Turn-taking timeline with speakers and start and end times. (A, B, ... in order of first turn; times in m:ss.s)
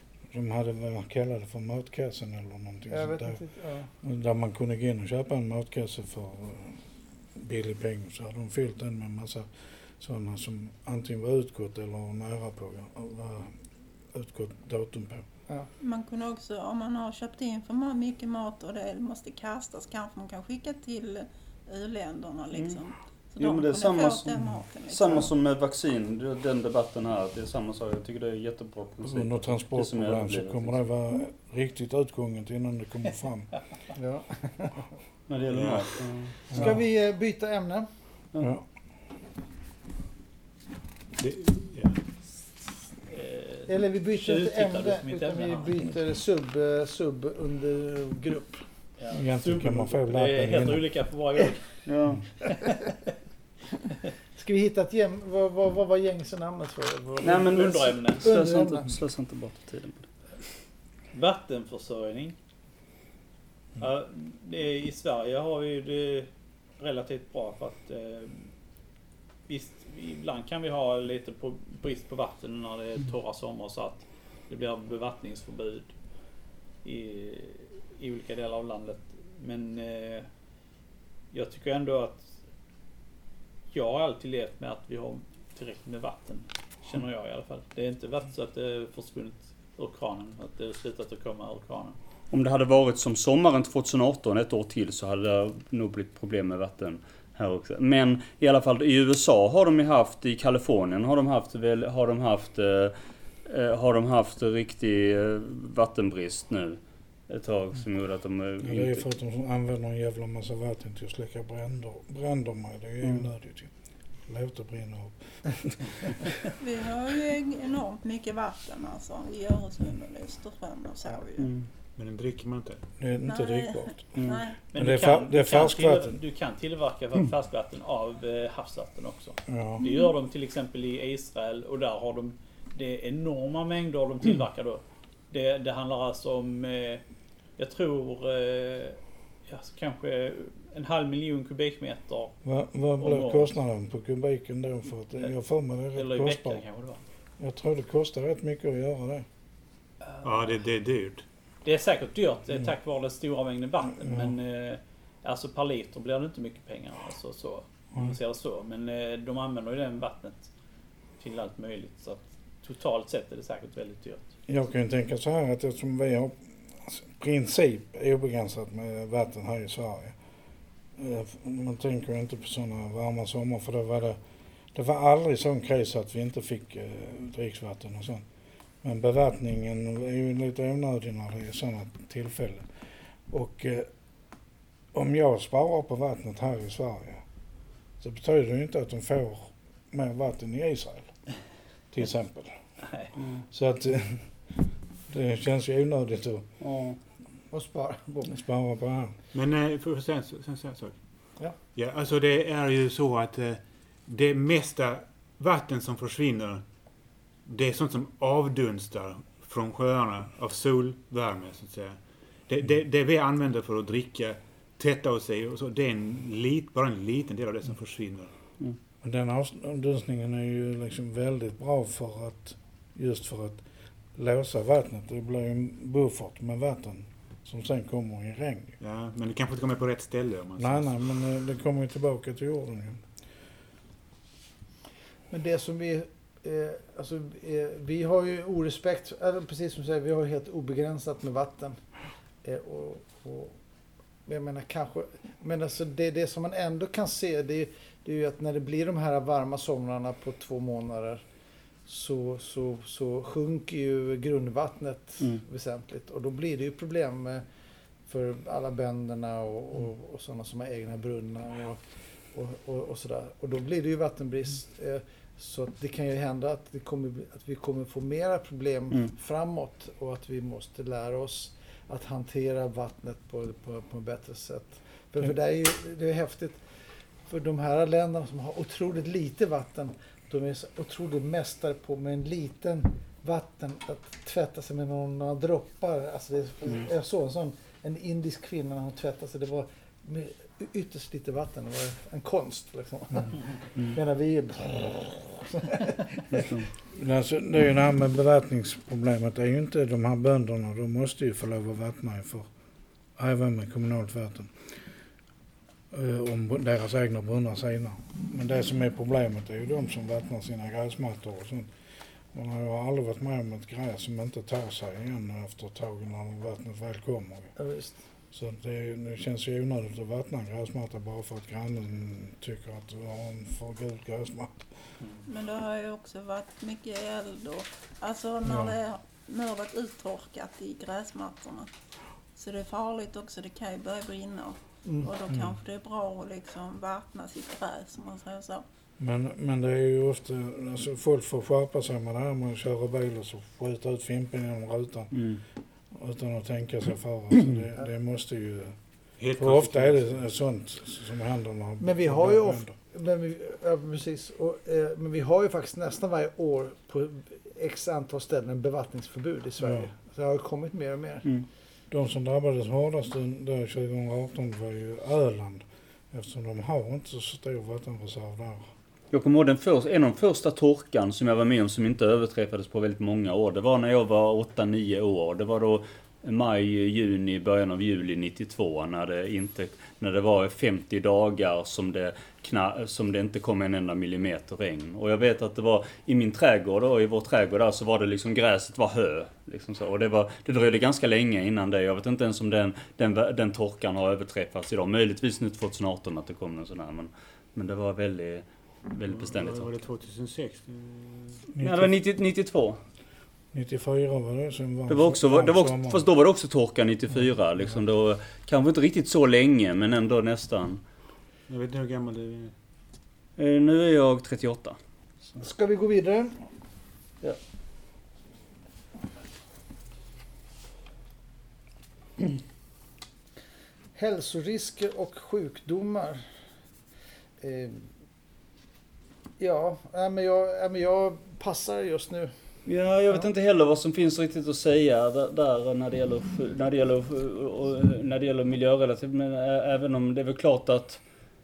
0:00.3-0:03.4 A
0:02.9-0:03.9 B
0:04.0-0:06.8 A
0:07.3-0:13.6 A
0:14.1-0:15.2 A
0:15.8-0:25.3 C
0:22.5-0:22.8 D
0:23.4-0:30.8 D
0:29.0-0:33.5 A
0:33.9-0:34.8 B
0:35.3-0:36.7 D
0:35.5-0:36.0 E
0:36.5-0:36.8 A
0:36.5-0:37.9 B
0:38.4-0:38.6 A
0:41.2-0:42.0 E
0:43.1-0:45.7 F
0:43.7-0:48.7 B
0:49.0-0:53.0 F
0:49.1-0:50.9 A
0:51.8-0:52.4 D
0:54.3-0:58.9 B
0:57.2-1:00.1 D
0:57.4-0:58.3 F
1:01.1-1:02.4 F
1:03.8-1:08.5 F
1:09.5-1:15.9 F
1:16.8-1:20.3 F
1:21.3-1:22.3 F
1:23.7-1:32.0 F
1:32.3-1:49.0 D
1:48.6-1:53.7 A
1:54.3-1:56.3 A
1:56.6-2:01.5 C
2:01.4-2:01.7 D
2:02.0-2:02.8 E
2:03.0-2:04.2 A
2:03.2-2:04.6 C
2:04.2-2:04.4 D
2:04.7-2:17.0 F
2:04.7-2:06.2 A
2:09.5-2:09.8 A
2:09.8-2:10.1 C
2:17.6-2:22.4 F
2:22.4-2:26.6 A
2:23.0-2:23.6 F
2:25.9-2:27.0 F
2:27.4-2:29.3 A
2:30.2-2:31.2 E
2:31.6-2:40.5 F
2:34.0-2:34.3 A
2:41.2-2:44.3 F
2:44.5-2:50.2 A
2:51.0-2:54.2 A
2:54.7-2:58.2 A
2:58.8-3:02.7 A
3:03.3-3:03.9 A
3:04.9-3:07.2 A
3:08.0-3:11.1 A
3:11.9-3:12.6 A
3:13.2-3:13.4 D
3:13.5-3:16.4 A
3:16.6-3:17.0 D
3:17.5-3:18.4 B
3:18.3-3:19.1 A
3:19.3-3:21.0 E
3:21.7-3:26.6 E
3:27.4-3:38.3 E
3:39.0-3:43.6 A
3:44.1-3:48.8 A
3:48.8-3:50.9 E
3:50.6-3:53.0 A
3:55.3-4:01.8 B
4:02.4-4:03.6 B
4:04.2-4:11.2 B
4:11.8-4:17.4 B
4:18.1-4:21.8 B
4:22.3-4:36.6 B
4:37.2-4:56.4 B
4:56.3-4:56.7 D
4:56.9-5:02.5 A
5:03.2-5:04.7 A
5:05.9-5:11.7 A
5:12.3-5:17.5 A
5:17.6-5:18.0 B
5:18.3-5:24.7 A
5:25.2-5:31.7 C
5:28.4-5:28.7 A
5:32.4-5:38.6 C
5:39.0-5:45.1 A
5:45.1-5:45.4 D
5:45.9-5:48.8 A
5:49.2-5:50.1 E
5:49.4-5:52.7 A
5:51.8-6:01.3 B
5:59.6-5:59.9 A
6:01.9-6:08.7 A
6:09.1-6:39.7 D
6:39.1-6:41.4 E
6:41.5-6:41.9 A
6:41.6-6:42.8 D
6:43.5-6:46.0 A
6:44.9-6:50.8 D
6:51.5-6:52.5 E
6:53.4-6:54.8 D
6:55.4-6:56.4 B
7:03.9-7:06.3 B
7:07.4-7:07.9 B
7:09.4-7:12.3 B
7:12.6-7:21.0 D